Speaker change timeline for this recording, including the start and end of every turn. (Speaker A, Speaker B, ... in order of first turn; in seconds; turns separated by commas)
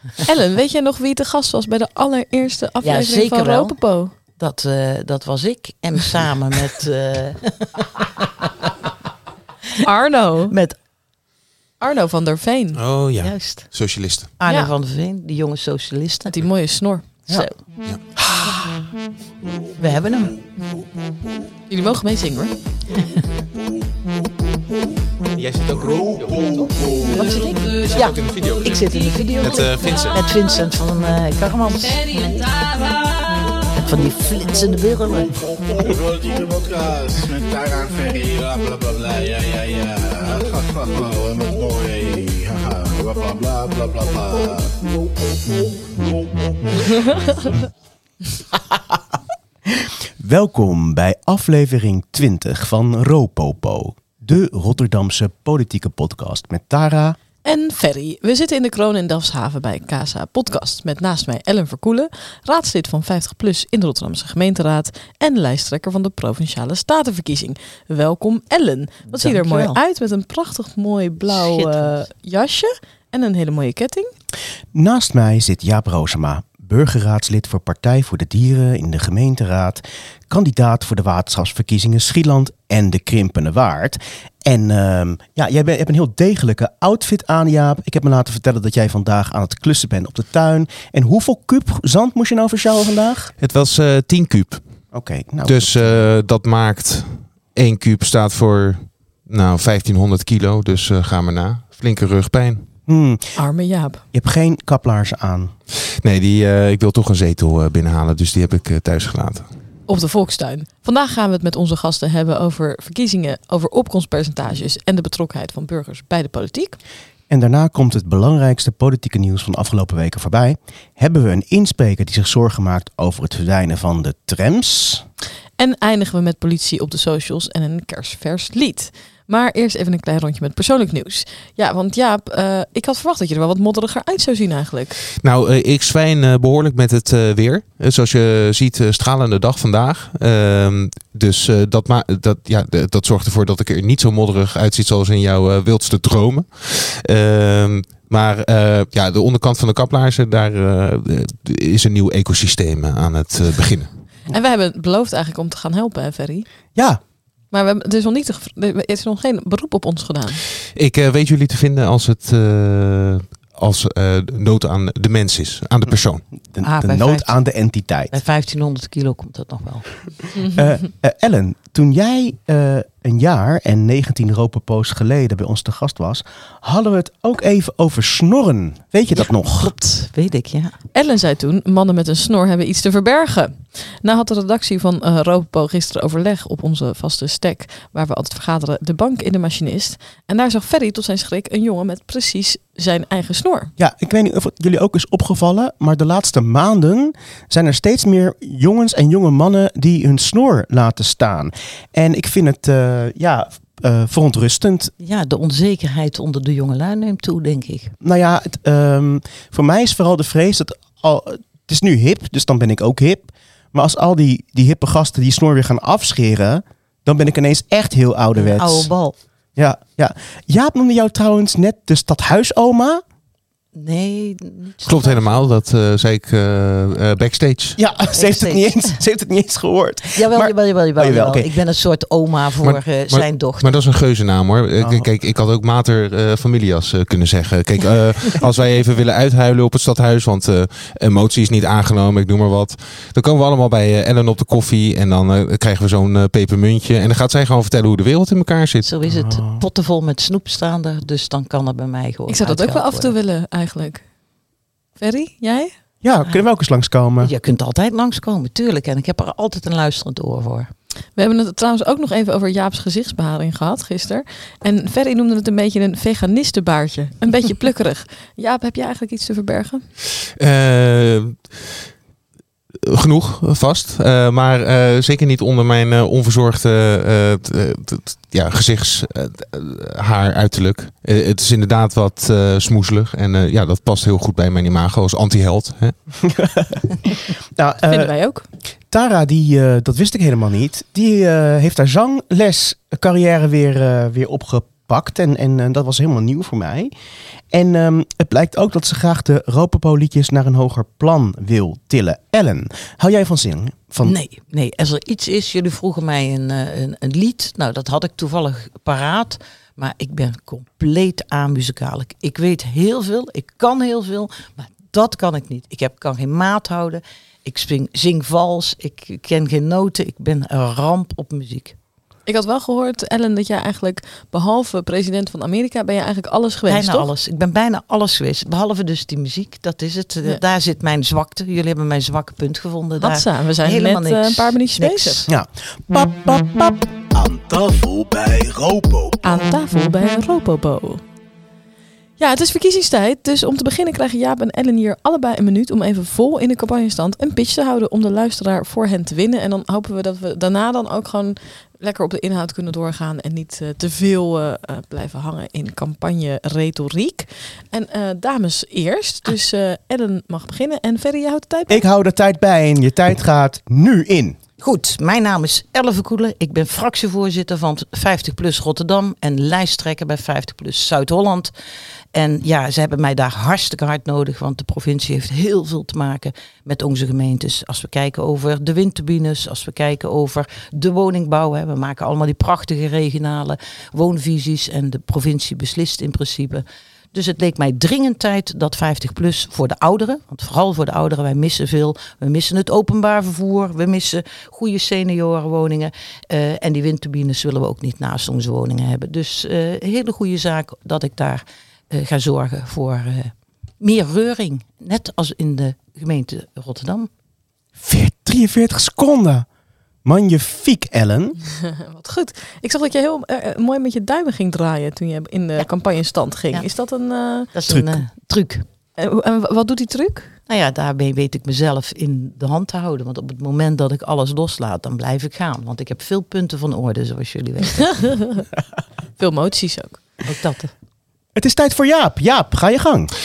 Speaker A: 0.2-4.1, Speaker B: 2.8-8.5, Speaker A: 9.8-10.6, Speaker B: 10.5-10.8, Speaker A: 11.8-12.8, Speaker C: 12.7-14.3, Speaker B: 13.2-16.4, Speaker A: 14.5-14.7, Speaker A: 16.3-17.2, Speaker B: 17.3-17.6, Speaker D: 18.2-18.6, Speaker B: 19.8-20.4, Speaker A: 21.7-22.6, Speaker C: 25.4-28.8, Speaker B: 27.1-32.2, Speaker C: 29.4-30.2, Speaker B: 33.7-35.4, Speaker E: 37.4-39.5, Speaker E: 41.0-44.4, Speaker D: 49.7-57.2, Speaker A: 57.4-74.1, Speaker B: 69.1-69.8, Speaker B: 71.3-72.0, Speaker D: 74.7-93.3, Speaker C: 93.4-94.7, Speaker D: 94.9-96.0, Speaker C: 95.4-102.7, Speaker D: 102.9-103.4, Speaker A: 103.4-104.0, Speaker D: 104.1-105.5, Speaker C: 105.9-109.5, Speaker A: 109.9-116.8, Speaker D: 117.3-125.0, Speaker A: 125.6-135.1, Speaker C: 135.2-153.9, Speaker A: 154.3-156.5, Speaker D: 156.8-157.0, Speaker A: 157.5-160.4, Speaker C: 160.7-166.2, Speaker D: 166.5-168.1, Speaker B: 166.6-167.4, Speaker B: 168.1-170.2, Speaker A: 170.4-170.6, Speaker D: 170.5-179.7, Speaker B: 179.2-180.8, Speaker A: 180.9-193.7, Speaker D: 193.8-204.9, Speaker B: 205.0-207.9, Speaker D: 208.0-218.9, Speaker B: 218.4-219.2, Speaker D: 219.6-223.0, Speaker B: 223.8-225.5, Speaker C: 224.8-227.8, Speaker D: 227.8-231.5, Speaker B: 228.2-229.0, Speaker B: 230.2-233.8, Speaker C: 232.6-248.9, Speaker D: 234.8-235.1, Speaker B: 248.8-253.1, Speaker D: 249.1-249.6, Speaker A: 252.3-254.1, Speaker A: 255.0-255.7, Speaker D: 256.0-257.3, Speaker B: 257.2-260.7, Speaker A: 261.1-269.9, Speaker C: 270.4-271.9, Speaker C: 272.8-286.0, Speaker D: 286.2-288.3, Speaker A: 287.9-288.5, Speaker D: 288.9-296.9, Speaker D: 297.5-304.1, Speaker B: 304.0-321.8, Speaker A: 322.3-327.1, Speaker B: 326.7-335.3, Speaker A: 333.0-335.2, Speaker D: 335.3-339.4, Speaker A: 339.2-341.0, Speaker A: 342.2-361.8, Speaker D: 361.7-364.4, Speaker B: 364.6-371.5, Speaker B: 372.1-407.1, Speaker D: 407.8-409.5, Speaker D: 410.0-411.4, Speaker A: 411.7-417.5, Speaker B: 417.5-418.6, Speaker D: 417.7-418.0, Speaker A: 419.0-420.4, Speaker B: 420.5-428.0, Speaker A: 427.9-428.4, Speaker A: 429.2-430.0, Speaker B: 430.2-430.7, Speaker D: 431.4-433.1